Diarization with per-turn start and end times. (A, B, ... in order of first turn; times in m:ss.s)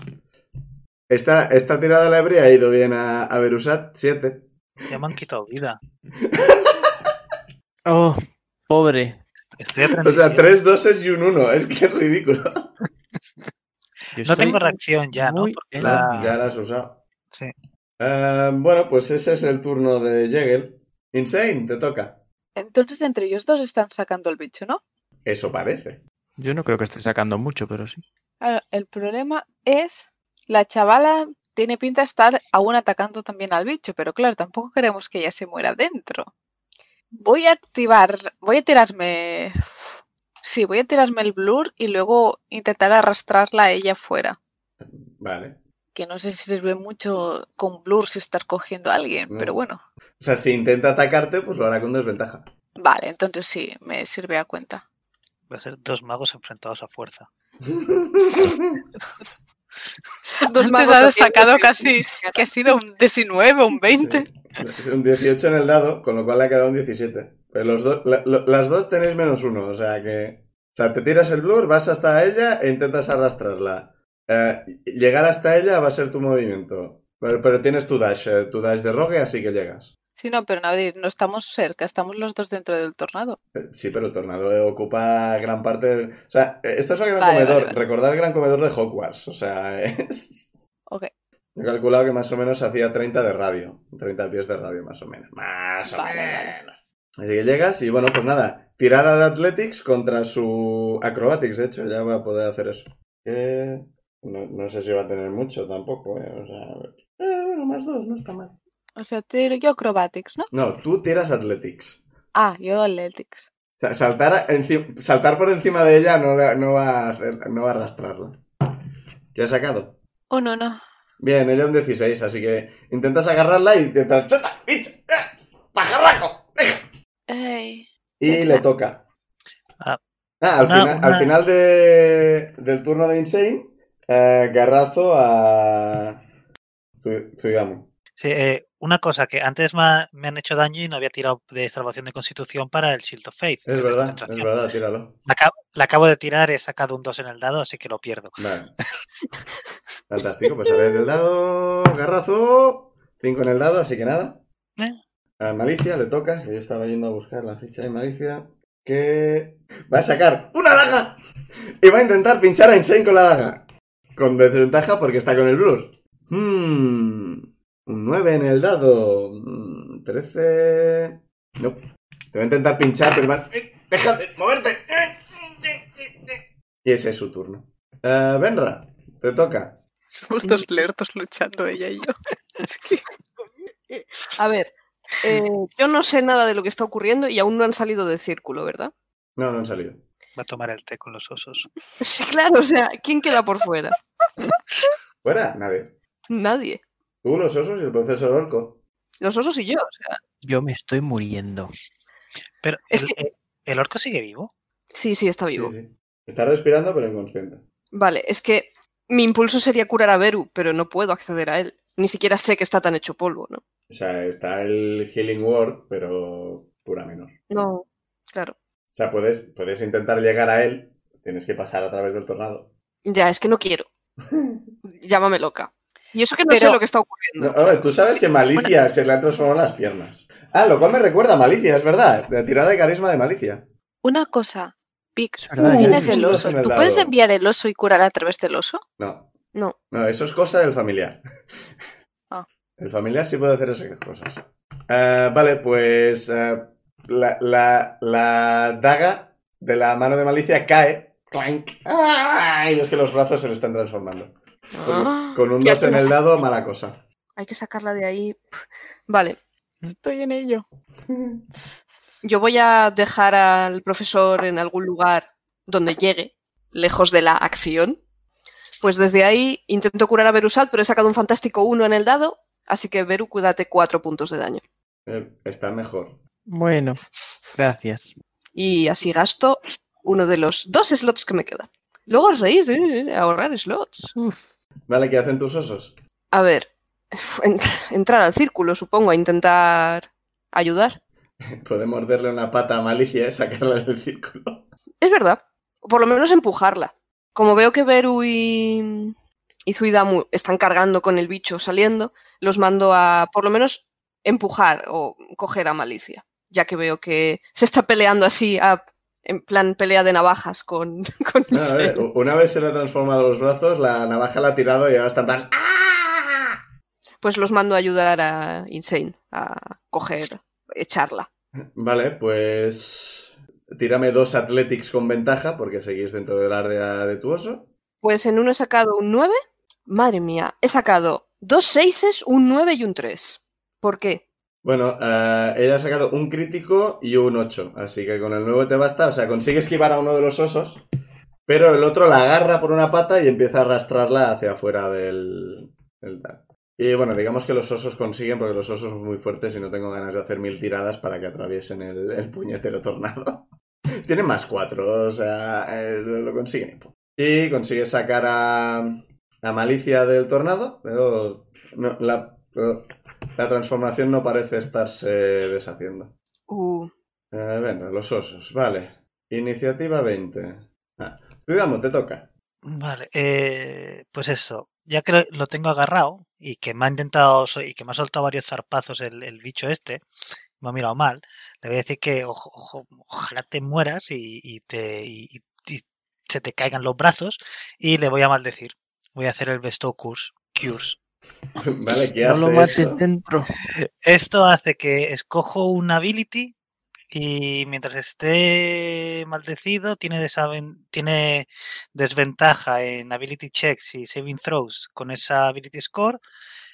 0:01.1-0:04.5 A
0:04.9-0:05.8 B
0:06.2-0:07.1 A
0:07.9-0:09.2 C
0:09.6-0:10.5 B
0:10.0-0:12.7 A
0:14.1-0:16.4 C
0:14.2-0:16.3 B
0:15.8-0:17.0 A
0:18.0-0:22.2 A
0:22.6-0:24.8 D
0:25.3-0:26.0 A
0:26.4-0:28.0 C
0:28.4-0:36.3 D
0:37.2-0:44.4 D
0:44.8-0:45.6 A
0:46.0-0:49.8 D
0:49.3-0:49.6 A
0:50.2-0:52.5 A
0:52.8-0:54.8 D
0:55.5-0:57.3 B
0:57.7-0:58.8 A
1:00.4-1:02.4 E
1:00.5-1:04.3 D
1:03.9-1:19.9 A
1:20.2-1:23.4 D
1:23.5-1:30.5 A
1:27.2-1:27.8 D
1:31.6-1:48.6 A
1:35.9-1:36.6 D
1:49.0-1:50.5 D
1:50.5-1:52.0 A
1:52.4-1:53.5 D
1:53.8-1:58.4 A
1:59.4-2:00.0 A
2:00.3-2:00.8 D
2:01.2-2:06.9 A
2:07.3-2:08.6 D
2:08.2-2:09.0 A
2:10.4-2:16.2 A
2:10.6-2:11.3 B
2:17.0-2:17.9 A
2:18.2-2:24.5 B
2:23.7-2:25.2 A
2:25.3-2:28.4 B
2:28.4-2:28.7 A
2:30.1-2:34.4 A
2:35.4-2:41.2 A
2:41.8-2:43.6 A
2:44.2-2:59.8 A
3:00.2-3:03.1 D
3:00.4-3:00.7 E
3:04.4-3:08.9 E
3:09.4-3:10.0 A
3:10.4-3:11.7 B
3:12.0-3:14.0 E
3:15.2-3:16.0 A
3:16.3-3:16.8 E
3:17.2-3:18.8 A
3:19.2-3:20.2 E
3:20.4-3:21.7 C
3:22.6-3:24.5 B
3:22.9-3:23.2 E
3:24.9-3:25.7 E
3:25.5-3:27.6 A
3:27.9-3:33.6 E
3:33.9-3:37.3 A
3:37.5-3:38.6 E
3:38.9-3:42.7 A
3:43.1-3:43.9 E
3:44.3-3:44.7 A
3:44.9-3:47.9 E
3:46.5-3:46.8 D
3:47.4-3:53.7 A
3:54.0-3:58.8 D
3:55.4-3:56.5 C
3:55.6-3:57.1 A
3:59.0-3:59.3 A
3:59.9-4:01.7 A
4:02.8-4:14.3 A
4:14.7-4:16.2 E
4:14.8-4:17.0 A
4:17.4-4:18.4 E
4:19.1-4:19.4 E
4:19.9-4:20.6 D
4:21.1-4:21.4 A
4:22.2-4:28.0 E
4:28.8-4:34.6 E
4:35.1-4:36.2 A
4:36.5-4:38.2 C
4:38.6-4:44.1 E
4:44.1-4:44.5 C
4:44.9-4:45.9 A
4:46.3-4:51.0 E
4:51.5-4:54.7 A
4:55.0-4:59.1 E
4:59.7-5:12.0 E
5:11.5-5:16.6 A
5:17.2-5:21.3 E
5:21.8-5:27.7 A
5:28.0-5:29.4 E
5:29.9-5:34.2 E
5:34.6-5:40.8 A
5:41.5-5:53.5 A
5:54.0-6:06.1 A
6:06.5-6:06.9 E
6:07.3-6:12.3 A
6:12.6-6:20.1 B
6:20.6-6:31.0 B
6:31.6-6:33.0 A
6:32.2-6:33.7 C
6:34.0-6:36.6 B
6:37.1-6:46.2 B